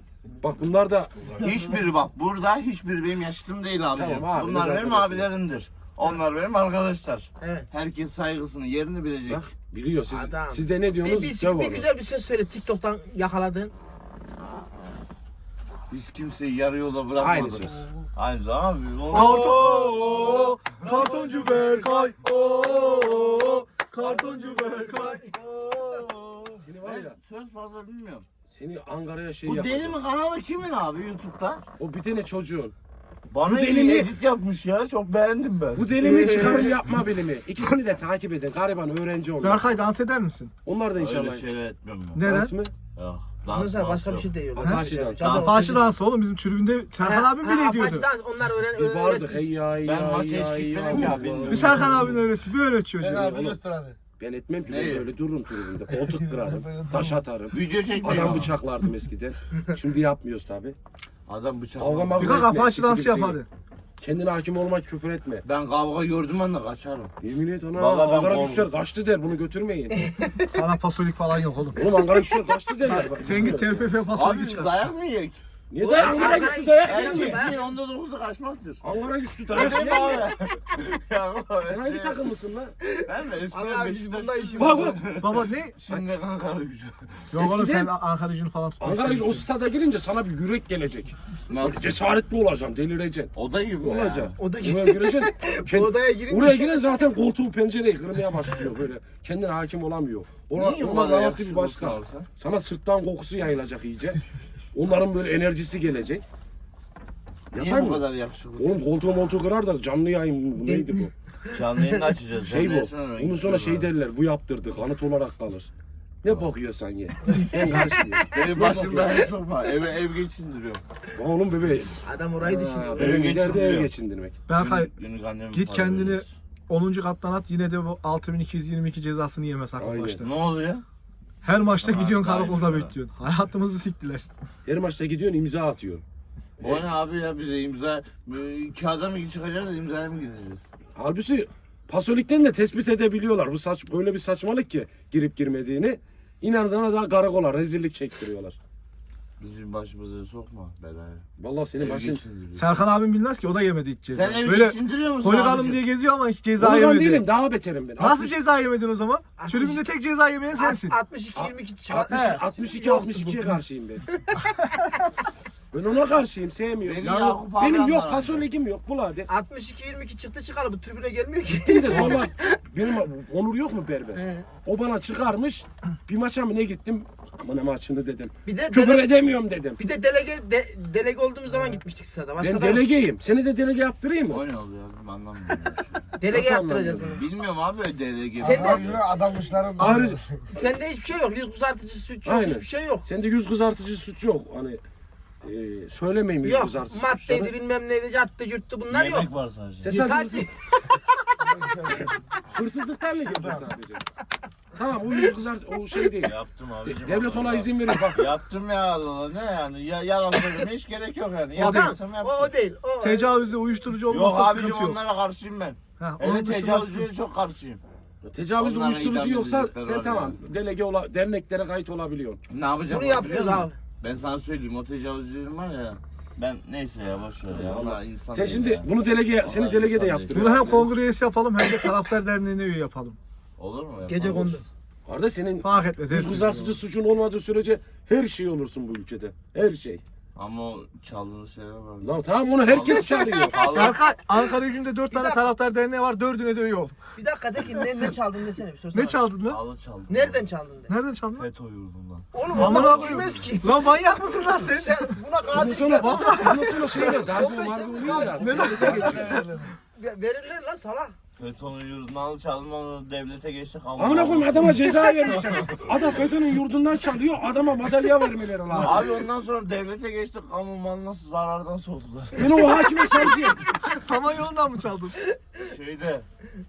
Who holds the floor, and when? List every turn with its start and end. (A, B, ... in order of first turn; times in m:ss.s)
0:00.4-0:01.3 A
0:01.3-0:09.4 B
0:04.0-0:05.3 A
0:07.4-0:07.7 C
0:09.3-0:11.9 A
0:10.1-0:13.7 C
0:15.9-0:20.7 B
0:17.2-0:17.8 A
0:19.1-0:25.2 D
0:24.6-0:28.3 B
0:26.6-0:27.2 A
0:28.5-0:30.0 A
0:29.4-0:31.6 B
0:31.8-0:32.8 A
0:33.3-0:36.7 B
0:33.5-0:34.1 A
0:35.8-0:39.6 A
0:39.4-0:40.5 D
0:40.6-0:41.4 A
0:41.0-0:42.2 B
0:42.2-0:42.6 D
0:42.2-0:42.7 A
0:42.9-0:44.3 B
0:43.5-0:45.8 C
0:44.6-0:45.6 A
0:44.6-0:48.1 D
0:45.2-0:45.9 B
0:47.0-0:49.5 C
0:48.8-0:52.2 A
0:49.8-0:52.2 B
0:51.5-0:53.3 D
0:53.0-0:54.0 E
0:53.2-0:53.6 A
0:54.2-1:00.8 A
0:54.7-0:55.1 B
0:56.0-0:57.1 E
0:57.5-0:58.5 B
1:01.3-1:02.6 B
1:01.8-1:03.4 A
1:02.2-1:03.5 D
1:04.0-1:05.4 A
1:05.4-1:07.1 B
1:07.2-1:10.1 A
1:07.8-1:08.7 B
1:10.2-1:10.5 C
1:10.5-1:11.8 D
1:11.8-1:13.9 A
1:12.8-1:14.7 D
1:14.1-1:18.8 B
1:15.7-1:17.5 A
1:15.8-1:17.6 C
1:18.8-1:20.2 A
1:19.5-1:22.3 B
1:19.8-1:20.1 C
1:21.7-1:22.8 A
1:22.8-1:25.0 C
1:23.0-1:27.3 B
1:24.6-1:25.0 A
1:25.0-1:25.8 D
1:27.3-1:29.5 D
1:27.4-1:28.0 A
1:28.8-1:33.3 A
1:31.5-1:32.0 B
1:33.4-1:34.4 B
1:33.8-1:44.2 A
1:34.4-1:36.7 C
1:40.5-1:42.3 B
1:44.7-1:46.2 A
1:47.5-1:48.0 A
1:47.5-1:48.8 B
1:48.6-1:51.1 A
1:50.6-1:51.6 C
1:51.5-1:53.9 B
1:52.4-1:55.7 A
1:56.2-1:59.2 A
1:58.3-2:00.8 B
2:01.2-2:04.4 A
2:02.0-2:03.3 C
2:03.0-2:03.9 B
2:04.5-2:04.9 D
2:04.5-2:06.3 B
2:05.5-2:10.3 D
2:09.8-2:10.2 A
2:10.2-2:10.8 B
2:11.4-2:14.3 D
2:11.8-2:12.9 B
2:14.7-2:16.0 A
2:16.6-2:16.9 A
2:16.6-2:20.7 B
2:21.0-2:28.6 A
2:29.4-2:31.2 B
2:31.4-2:32.2 A
2:31.8-2:32.8 B
2:32.6-2:37.3 D
2:34.1-2:35.8 B
2:36.6-2:38.3 A
2:38.0-2:40.9 D
2:39.4-2:39.8 C
2:40.6-2:43.4 C
2:41.4-2:44.0 A
2:44.2-2:45.1 C
2:45.7-2:49.3 A
2:46.8-2:48.4 B
2:49.3-2:52.6 C
2:51.6-2:59.8 A
2:51.9-2:52.2 B
2:54.2-2:54.5 C
2:58.4-2:59.1 C
2:59.8-3:02.8 C
3:02.4-3:04.4 A
3:04.3-3:06.2 B
3:06.2-3:07.2 C
3:06.3-3:07.2 A
3:07.2-3:09.4 B
3:08.4-3:09.0 C
3:08.4-3:10.4 E
3:09.8-3:10.1 D
3:09.8-3:10.2 A
3:10.5-3:13.1 C
3:12.2-3:14.8 A
3:15.4-3:17.5 A
3:16.4-3:19.3 C
3:18.9-3:19.9 B
3:19.8-3:20.5 A
3:19.8-3:22.1 C
3:21.5-3:22.1 E
3:22.5-3:24.0 A
3:24.8-3:28.3 A
3:26.2-3:32.5 B
3:31.6-3:31.9 D
3:31.6-3:33.3 C
3:33.0-3:35.0 D
3:34.1-3:37.8 B
3:36.0-3:37.1 D
3:38.2-3:42.4 A
3:38.6-3:40.4 B
3:42.5-3:48.9 B
3:42.9-3:43.8 C
3:47.5-3:50.9 A
3:49.4-3:50.8 B
3:50.3-3:53.2 D
3:53.6-3:54.6 B
3:54.1-3:54.6 C
3:55.1-4:00.0 A
3:55.6-3:56.8 D
4:00.4-4:04.0 B
4:02.0-4:03.9 A
4:03.1-4:03.5 C
4:03.7-4:07.0 D
4:05.1-4:05.4 C
4:07.2-4:09.2 C
4:08.9-4:09.6 D
4:09.5-4:10.4 B
4:10.1-4:10.9 C
4:10.9-4:11.5 D
4:11.4-4:13.5 B
4:12.3-4:13.8 C
4:12.5-4:15.2 D
4:14.6-4:21.2 C
4:15.5-4:19.4 A
4:15.9-4:17.2 D
4:18.1-4:19.6 D
4:19.2-4:19.7 E
4:21.4-4:26.2 B
4:24.0-4:29.1 A
4:28.8-4:32.8 B
4:32.4-4:33.6 A
4:33.9-4:35.2 D
4:35.7-4:36.2 B